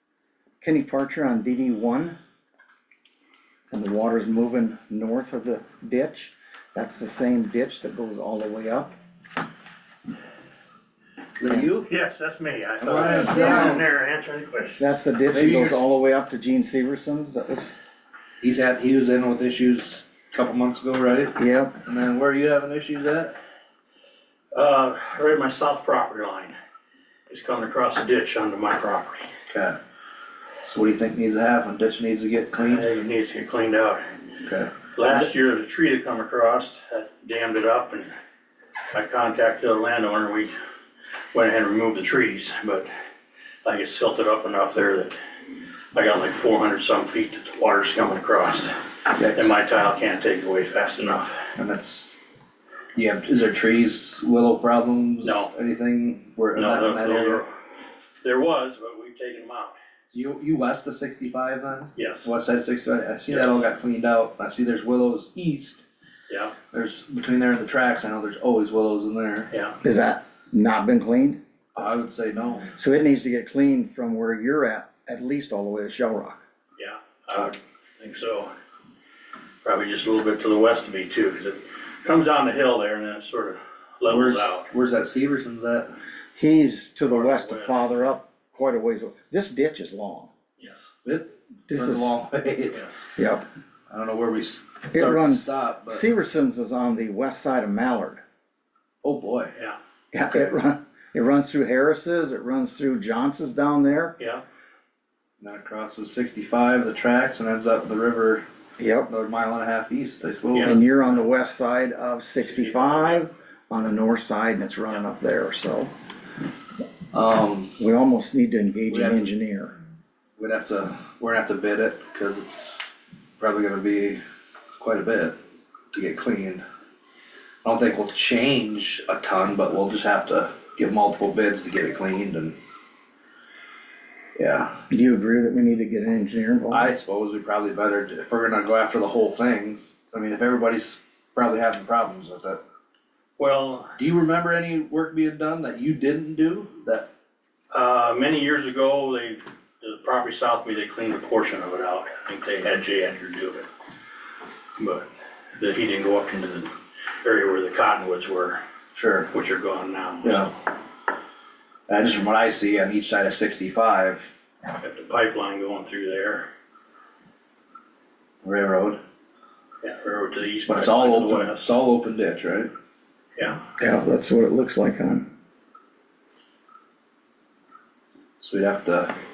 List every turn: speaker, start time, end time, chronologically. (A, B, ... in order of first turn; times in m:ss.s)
0:00.6-0:02.2 A
0:03.7-0:08.9 A
0:11.4-0:11.9 B
0:11.8-0:15.0 C
0:12.8-0:13.8 B
0:14.8-0:17.7 A
0:15.3-0:15.8 B
0:18.4-0:23.4 B
0:21.4-0:21.7 A
0:24.5-0:26.6 C
0:27.3-0:29.3 C
0:29.5-0:29.8 B
0:30.6-0:32.9 B
0:32.7-0:34.0 C
0:34.4-0:34.7 B
0:35.0-0:38.1 C
0:38.9-0:40.5 C
0:41.3-0:42.9 C
0:43.6-0:45.2 C
0:45.9-0:48.7 C
0:49.2-0:49.5 B
0:49.3-0:51.5 C
0:51.6-0:52.2 B
0:53.0-0:57.4 B
0:55.2-0:55.5 C
0:56.6-0:57.5 C
0:58.2-0:59.8 C
1:00.1-1:05.8 B
1:02.0-1:02.3 C
1:03.3-1:03.6 C
1:06.3-1:06.5 C
1:06.7-1:09.5 B
1:09.5-1:09.8 C
1:09.8-1:11.4 A
1:11.8-1:12.7 B
1:12.8-1:16.4 A
1:16.8-1:18.5 C
1:19.6-1:24.7 C
1:24.0-1:25.9 B
1:26.4-1:30.3 A
1:27.1-1:27.9 C
1:30.6-1:30.9 C
1:31.0-1:32.9 B
1:31.7-1:32.1 A
1:33.2-1:33.5 A
1:33.9-1:36.0 B
1:34.9-1:38.2 A
1:39.0-1:39.6 B
1:40.1-1:44.2 A
1:45.4-1:48.4 B
1:48.8-1:49.1 A
1:49.1-1:51.2 B
1:50.5-1:50.8 C
1:50.6-1:55.9 A
1:52.4-1:53.2 B
1:57.1-1:57.7 B
1:57.8-1:59.8 A
1:58.9-1:59.3 B
2:00.4-2:04.2 B
2:04.8-2:05.4 B
2:05.9-2:06.6 B
2:07.6-2:12.6 B
2:14.4-2:14.8 B
2:14.9-2:16.9 A
2:16.7-2:22.6 B
2:23.4-2:24.0 C
2:24.0-2:27.1 B
2:27.7-2:33.7 C
2:34.8-2:36.7 C
2:37.2-2:38.6 C
2:38.9-2:39.3 B
2:39.3-2:40.5 C
2:40.2-2:40.5 B
2:41.9-2:44.3 B
2:44.8-2:46.5 C
2:48.4-2:49.0 B
2:49.8-2:51.7 C
2:50.7-2:52.7 B
2:53.4-2:53.6 C
2:53.8-2:55.3 A
2:58.4-2:59.1 B